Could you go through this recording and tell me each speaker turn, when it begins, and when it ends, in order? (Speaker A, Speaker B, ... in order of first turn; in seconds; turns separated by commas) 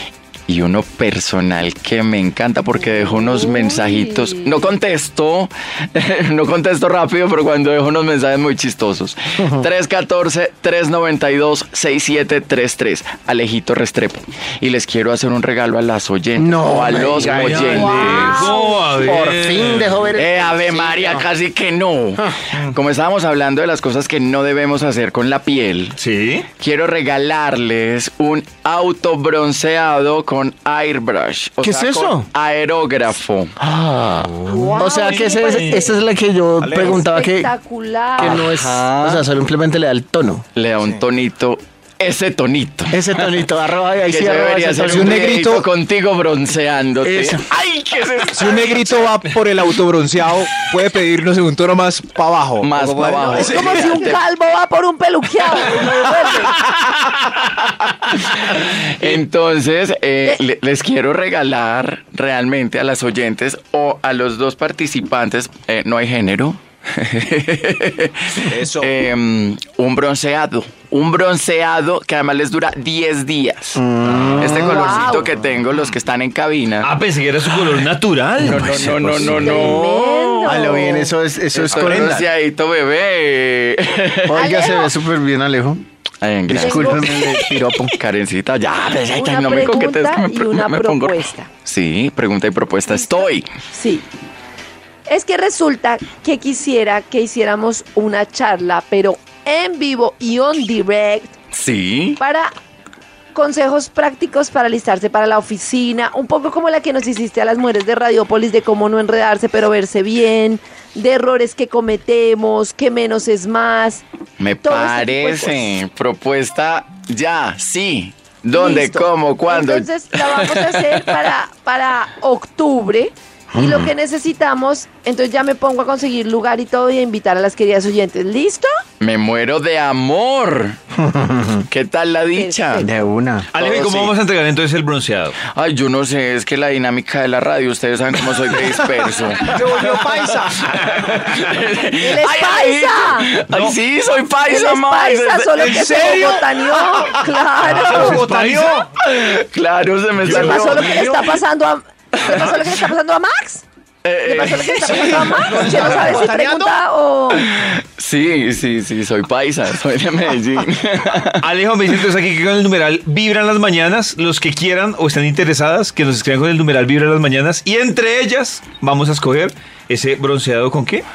Speaker A: 0.5-18.5, Speaker B: 2.9-4.5, Speaker C: 16.4-21.3, Speaker D: 17.1-20.1, Speaker B: 17.7-18.9, Speaker A: 20.1-26.0, Speaker D: 26.0-26.5, Speaker A: 26.6-33.5, Speaker C: 31.6-32.3, Speaker C: 33.6-37.5, Speaker D: 34.4-36.0, Speaker B: 34.6-36.0, Speaker E: 36.6-37.0, Speaker B: 36.7-38.5, Speaker C: 38.2-40.4, Speaker A: 38.2-39.2, Speaker A: 40.5-43.5, Speaker C: 42.9-45.4, Speaker A: 44.0-49.4, Speaker E: 44.9-45.6, Speaker C: 47.0-47.4, Speaker E: 48.3-54.1, Speaker A: 52.6-54.2, Speaker B: 53.3-56.5, Speaker A: 56.2-73.8, Speaker E: 68.5-68.9, Speaker C: 73.8-75.2, Speaker E: 74.0-74.6, Speaker A: 74.4-76.9, Speaker B: 74.6-75.3, Speaker D: 76.8-79.8, Speaker A: 77.5-77.8, Speaker A: 78.4-80.8, Speaker E: 78.9-79.3, Speaker B: 79.3-81.1, Speaker C: 80.5-82.2, Speaker A: 81.5-84.8, Speaker E: 81.6-82.2, Speaker C: 84.3-85.8, Speaker B: 84.3-85.0, Speaker A: 86.2-93.5, Speaker C: 86.5-88.0, Speaker B: 86.5-87.2, Speaker B: 89.1-91.5, Speaker B: 92.9-94.0, Speaker B: 95.1-101.3, Speaker A: 101.5-102.2, Speaker B: 102.2-102.5, Speaker B: 103.3-114.0, Speaker A: 114.4-121.1, Speaker B: 114.6-115.8, Speaker B: 118.5-128.7, Speaker A: 129.0-130.8, Speaker C: 131.1-131.5, Speaker A: 131.6-132.9, Speaker B: 132.4-132.9, Speaker C: 132.8-133.5, Speaker D: 133.5-135.4, Speaker A: 133.6-134.1, Speaker A: 135.5-146.4, Speaker E: 139.4-141.4, Speaker B: 142.0-143.3, Speaker D: 143.5-143.8, Speaker B: 144.4-148.3, Speaker E: 145.6-148.9, Speaker D: 148.0-148.8, Speaker A: 149.0-151.2, Speaker E: 150.2-151.4, Speaker B: 150.3-153.6, Speaker A: 154.0-155.3, Speaker B: 154.2-157.5, Speaker E: 154.7-156.8, Speaker A: 157.4-161.4, Speaker D: 161.4-171.1